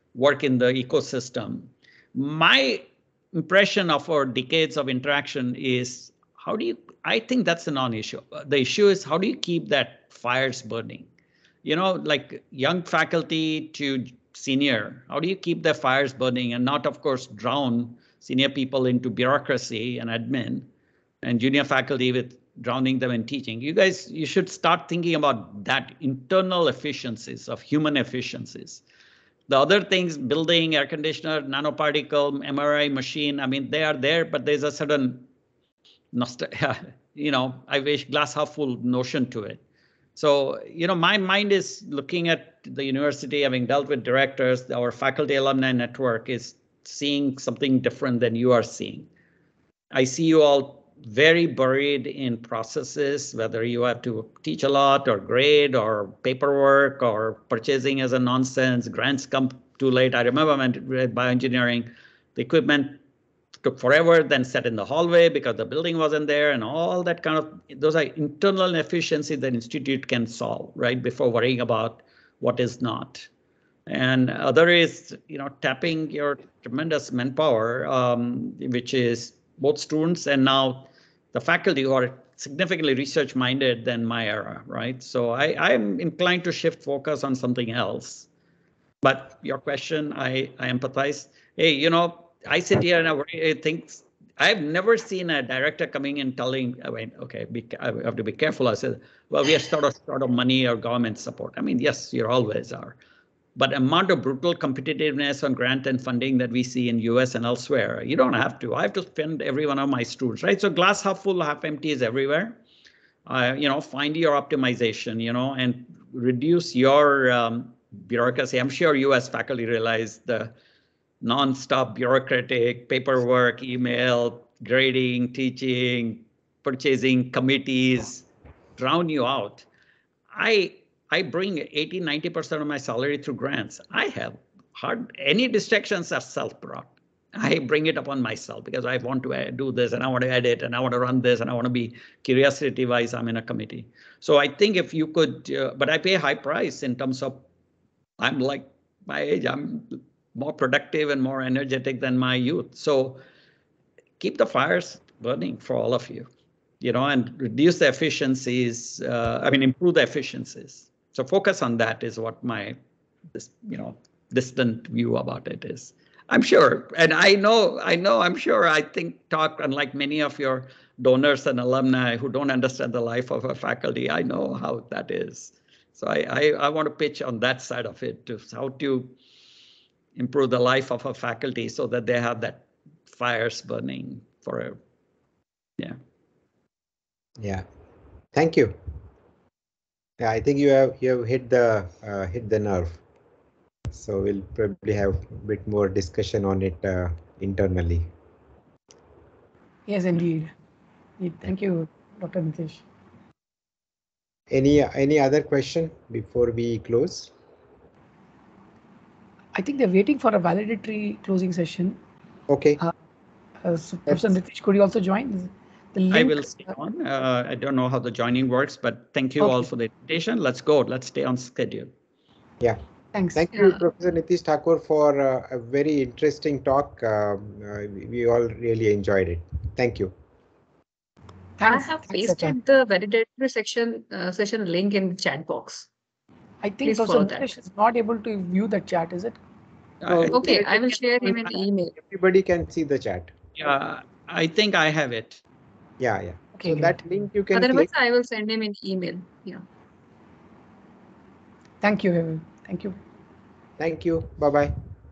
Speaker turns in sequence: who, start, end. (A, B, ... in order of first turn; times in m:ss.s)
0:00.1-0:11.1 A
0:11.6-0:20.7 A
0:21.2-0:28.8 A
0:29.5-0:35.3 A
0:36.1-0:39.6 A
0:40.2-0:49.1 A
0:49.9-1:03.0 A
1:03.6-1:13.3 A
1:13.9-1:28.3 A
1:29.0-1:43.0 A
1:43.6-1:52.6 A
1:53.3-2:00.5 A
2:01.2-2:08.2 A
2:08.8-2:09.7 A
2:10.3-2:27.4 A
2:28.2-2:33.2 A
2:34.2-2:36.3 A
2:36.8-2:42.8 A
2:43.3-2:59.1 A
3:00.2-3:04.8 A
3:07.4-3:07.6 B
3:08.3-3:08.8 B
3:10.2-3:13.0 B
3:13.9-3:18.1 B
3:19.9-3:20.5 C
3:21.2-3:22.8 C
3:24.5-3:27.3 B
3:29.5-3:32.0 C
3:32.5-3:32.8 B
3:33.6-3:36.6 C
3:36.1-3:41.9 A
3:43.1-3:43.4 C
3:43.3-3:50.1 B
3:51.6-3:52.6 C
3:51.6-3:55.9 D
3:56.6-3:59.4 C
3:56.8-3:57.5 D
4:00.0-4:00.5 A
4:00.1-4:03.3 B
4:00.3-4:01.9 D
4:03.6-4:05.4 A
4:06.0-4:07.9 B
4:06.6-4:06.9 C
4:07.5-4:09.6 D
4:11.8-4:13.0 C
4:13.8-4:14.8 B